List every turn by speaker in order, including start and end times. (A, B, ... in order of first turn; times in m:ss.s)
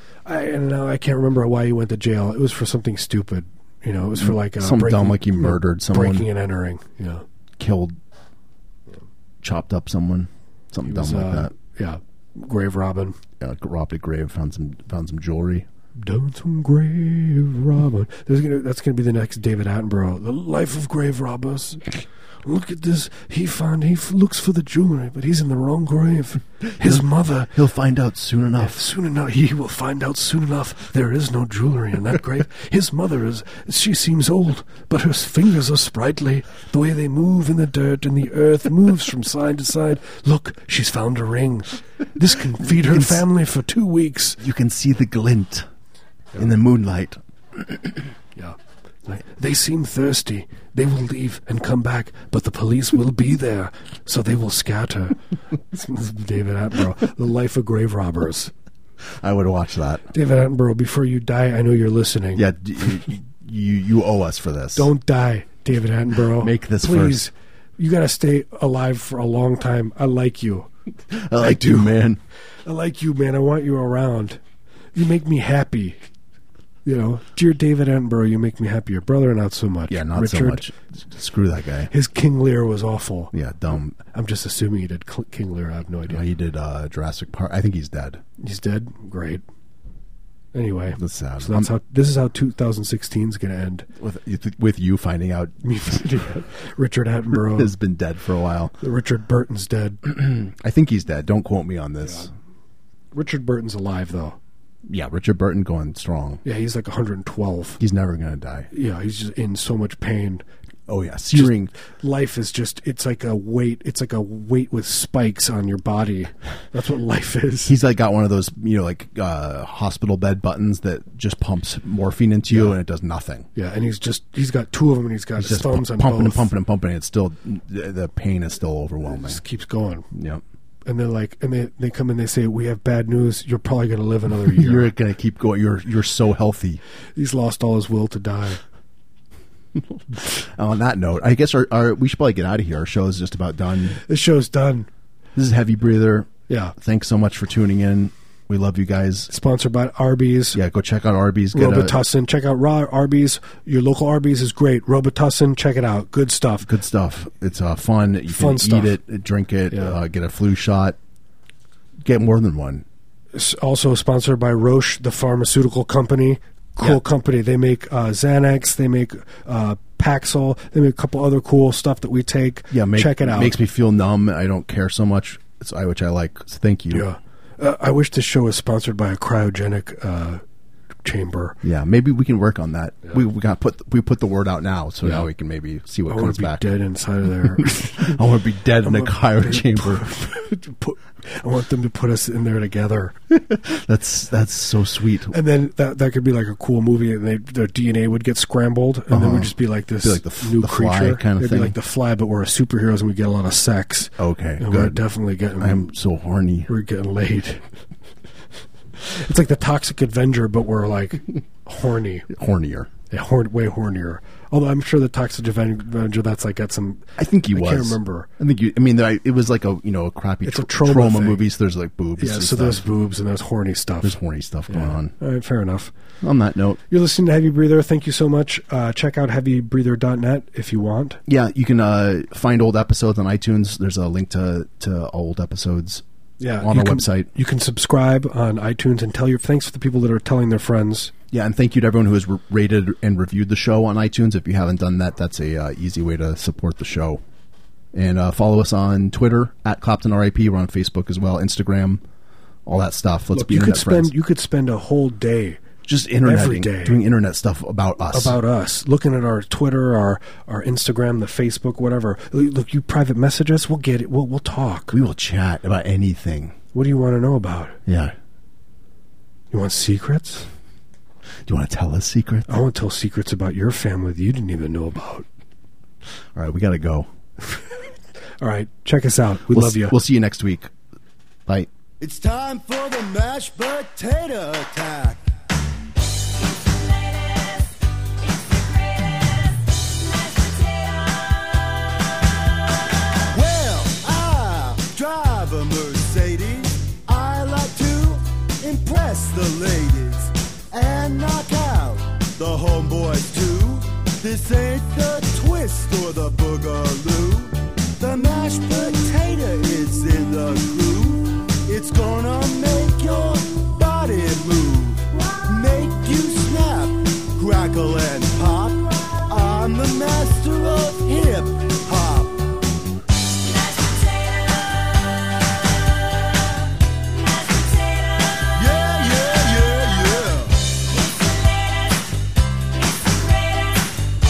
0:00.3-0:07.3 A
0:04.2-0:06.3 B
0:07.6-0:08.0 B
0:09.4-0:11.5 B
0:10.8-0:13.2 A
0:13.4-0:15.7 B
0:16.0-0:21.9 A
0:22.4-0:27.5 A
0:26.7-0:28.9 B
0:28.6-0:44.4 A
0:42.8-0:43.3 B
0:44.4-0:45.7 B
0:46.4-0:48.0 B
0:48.4-0:55.2 A
0:55.7-0:58.5 A
0:59.0-1:00.1 B
1:00.1-1:02.4 A
1:02.4-1:04.9 B
1:04.8-1:10.7 A
1:06.3-1:07.2 B
1:11.1-1:12.2 B
1:11.4-1:12.0 A
1:12.7-1:14.4 A
1:14.9-1:16.0 A
1:16.8-1:20.7 A
1:19.9-1:21.9 B
1:21.9-1:23.3 A
1:23.3-1:24.0 B
1:24.0-1:26.3 A
1:26.1-1:28.2 B
1:28.4-1:29.4 A
1:30.5-1:33.9 A
1:31.0-1:31.7 B
1:34.0-1:36.1 B
1:35.6-1:37.7 A
1:37.3-1:38.7 B
1:38.8-1:40.0 A
1:40.0-1:42.3 B
1:42.0-1:42.3 A
1:43.1-1:44.4 A
1:44.9-1:46.4 B
1:46.4-1:47.8 A
1:47.8-1:48.7 B
1:48.7-1:50.4 A
1:50.9-1:51.7 B
1:51.3-1:57.8 A
1:57.7-2:03.5 B
2:02.5-2:02.8 A
2:03.6-2:06.5 A
2:05.4-2:09.4 B
2:09.0-2:10.1 A
2:10.1-2:10.4 B
2:10.8-2:14.9 A
2:14.5-2:16.8 B
2:17.2-2:18.6 A
2:20.1-2:24.0 B
2:24.0-2:24.9 A
2:25.4-2:29.3 B
2:26.5-2:26.8 A
2:29.3-2:30.6 A
2:30.5-2:32.0 B
2:31.5-2:36.7 A
2:36.6-2:41.0 B
2:38.3-2:39.0 A
2:39.7-2:40.0 A
2:42.0-2:42.8 B
2:43.3-2:53.6 A
2:52.7-2:57.1 B
2:56.9-3:00.4 A
3:01.0-3:01.6 A
3:01.6-3:06.7 B
3:06.1-3:08.2 A
3:07.6-3:10.1 B
3:08.8-3:13.2 A
3:13.3-3:15.4 B
3:15.3-3:25.9 A
3:19.1-3:21.8 B
3:24.2-3:25.0 B
3:25.6-3:26.7 B
3:26.7-3:27.6 A
3:29.0-3:32.3 A
3:32.3-3:32.9 B
3:33.1-3:38.3 A
3:37.2-3:42.9 B
3:40.4-3:41.5 A
3:42.2-3:44.2 A
3:44.0-3:45.1 B
3:44.7-3:45.9 A
3:46.2-3:46.8 B
3:46.9-3:51.2 A
3:51.3-3:56.0 B
3:56.4-4:01.1 A
3:56.6-3:57.3 B
4:01.3-4:07.2 B
4:07.9-4:12.0 B
4:12.7-4:14.1 B
4:13.3-4:15.6 A
4:15.8-4:18.4 B
4:16.2-4:17.0 A
4:18.1-4:25.0 A
4:24.9-4:26.6 B
4:26.7-4:27.8 A
4:27.9-4:28.1 B
4:29.5-4:30.5 A
4:31.5-4:32.5 B
4:32.5-4:35.3 A
4:36.4-4:37.1 B
4:38.4-4:40.0 A
4:39.5-4:40.7 B
4:42.0-4:45.2 C
4:53.3-5:22.5 C
5:28.4-5:30.6 C